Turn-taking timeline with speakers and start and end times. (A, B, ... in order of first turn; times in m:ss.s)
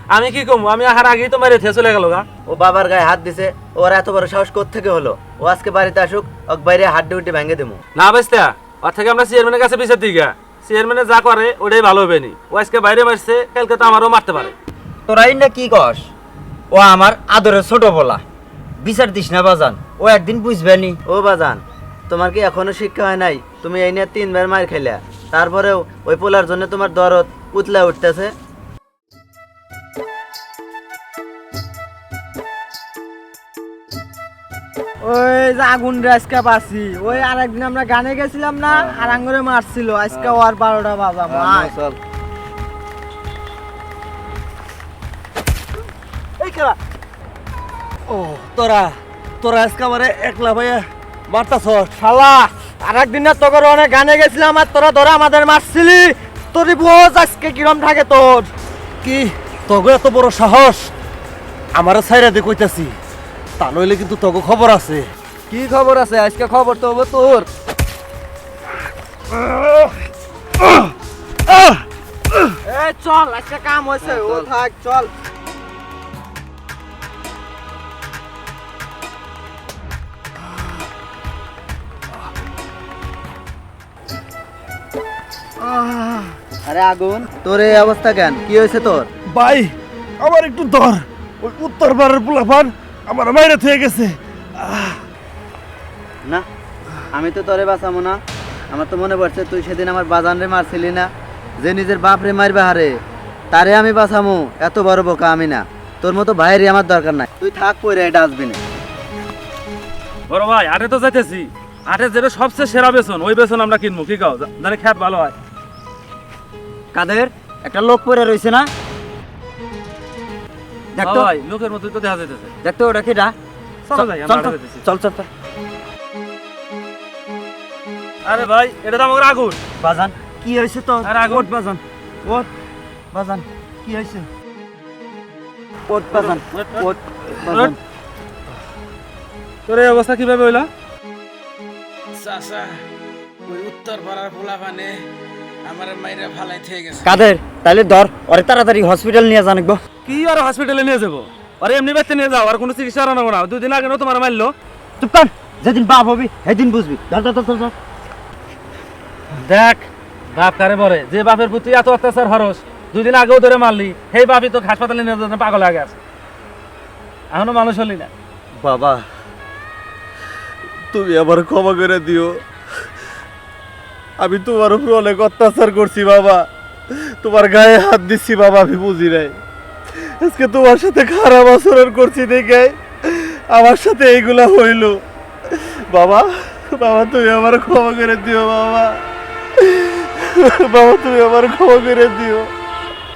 0:00.1-0:02.3 A
0:02.4-0:07.8 B
0:07.9-0:14.6 A
0:15.1-0:16.1 C
0:16.7-0:18.2 C
0:18.8-0:21.0 C
0:21.1-0:28.3 B
0:35.0-0:41.7 D
0:38.7-0:39.1 B
0:41.3-0:42.0 B
0:46.4-0:46.7 D
0:48.1-0:52.4 E
0:52.0-0:58.5 D
0:59.0-1:00.9 E
1:01.8-1:03.0 E
1:03.6-1:05.1 E
1:09.4-1:09.8 E
1:12.6-1:15.1 D
1:25.6-1:26.4 E
1:26.6-1:29.1 B
1:29.3-1:35.0 E
1:37.1-1:43.0 B
1:43.5-1:48.6 B
1:50.3-1:55.3 A
1:56.9-1:58.7 C
2:00.9-2:01.3 C
2:01.0-2:02.5 A
2:02.6-2:03.4 C
2:03.8-2:04.8 A
2:03.9-2:05.3 C
2:08.2-2:09.6 A
2:09.8-2:12.5 C
2:11.0-2:11.5 A
2:13.1-2:14.3 C
2:15.9-2:17.8 C
2:16.2-2:16.9 A
2:17.4-2:17.7 A
2:19.7-2:20.7 A
2:22.1-2:22.8 F
2:23.4-2:25.0 F
2:25.6-2:27.0 F
2:27.0-2:29.8 C
2:30.0-2:34.5 A
2:35.0-2:37.7 C
2:39.4-2:46.0 A
2:47.3-2:48.1 A
2:48.6-2:49.0 E
2:50.9-2:52.4 E
2:54.2-2:59.4 E
3:00.0-3:09.0 E
3:09.6-3:12.5 E